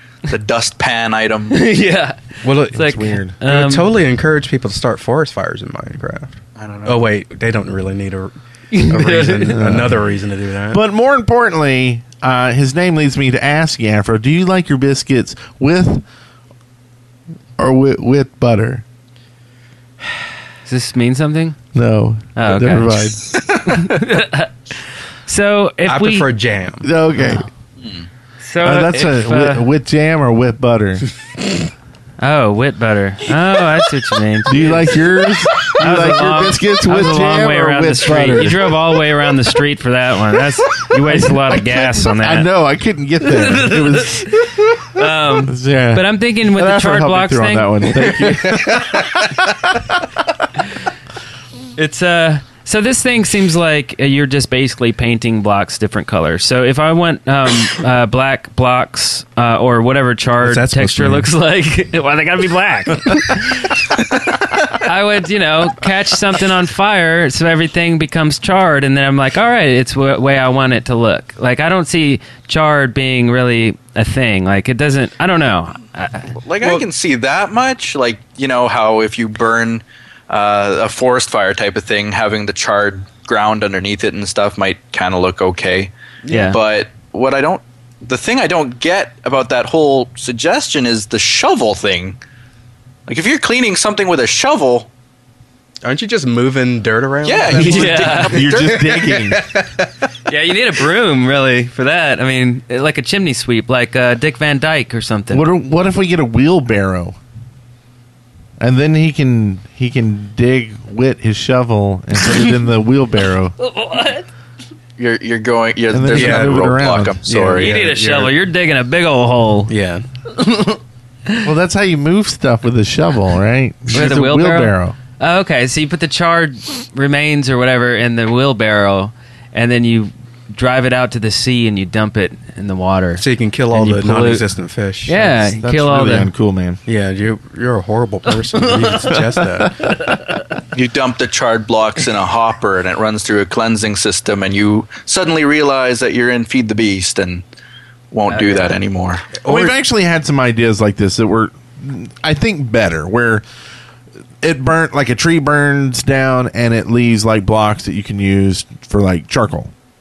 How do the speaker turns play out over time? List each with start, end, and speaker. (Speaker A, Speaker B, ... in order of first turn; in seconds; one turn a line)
Speaker A: 0.3-1.6
Speaker B: 1.5-3.9
Speaker C: 2.4-2.9
Speaker D: 2.7-3.4
Speaker C: 3.4-8.3
Speaker A: 6.6-7.1
Speaker B: 8.7-9.5
Speaker C: 8.8-10.8
Speaker D: 9.4-10.0
Speaker D: 10.7-16.0
Speaker D: 17.6-18.8
Speaker B: 20.6-21.6
Speaker D: 21.7-23.4
Speaker B: 22.3-24.5
Speaker B: 25.2-26.3
Speaker C: 25.9-26.9
Speaker D: 26.8-27.4
Speaker B: 27.2-27.4
Speaker B: 28.4-29.7
Speaker D: 28.6-31.0
Speaker B: 32.2-35.0
Speaker D: 34.5-38.8
Speaker B: 35.5-42.5
Speaker D: 40.9-50.0
Speaker B: 43.2-48.1
Speaker C: 48.0-49.3
Speaker B: 51.8-63.8
Speaker C: 60.4-61.3
Speaker B: 64.7-76.3
Speaker A: 76.4-85.9
Speaker C: 86.2-86.6
Speaker B: 86.3-86.6
Speaker A: 86.5-92.2
Speaker A: 93.1-94.9
Speaker C: 95.8-99.9
Speaker A: 97.2-99.0
Speaker B: 97.5-98.3
Speaker D: 98.3-99.5
Speaker B: 100.3-105.5
Speaker D: 105.3-107.2
Speaker D: 108.6-113.5
Speaker B: 113.6-114.3
Speaker A: 115.0-117.8
Speaker D: 115.9-117.2
Speaker C: 116.1-116.7
Speaker C: 117.2-118.3
Speaker B: 117.5-119.7
Speaker C: 119.7-120.0
Speaker B: 120.4-120.8
Speaker D: 121.4-125.0
Speaker B: 123.9-134.4
Speaker C: 133.2-135.1
Speaker B: 135.1-136.3
Speaker D: 135.1-136.8
Speaker C: 136.8-139.8
Speaker D: 139.6-140.1
Speaker A: 140.7-147.4
Speaker A: 148.1-149.3
Speaker B: 148.3-148.7
Speaker C: 149.4-149.8
Speaker D: 149.4-153.4
Speaker D: 154.4-159.7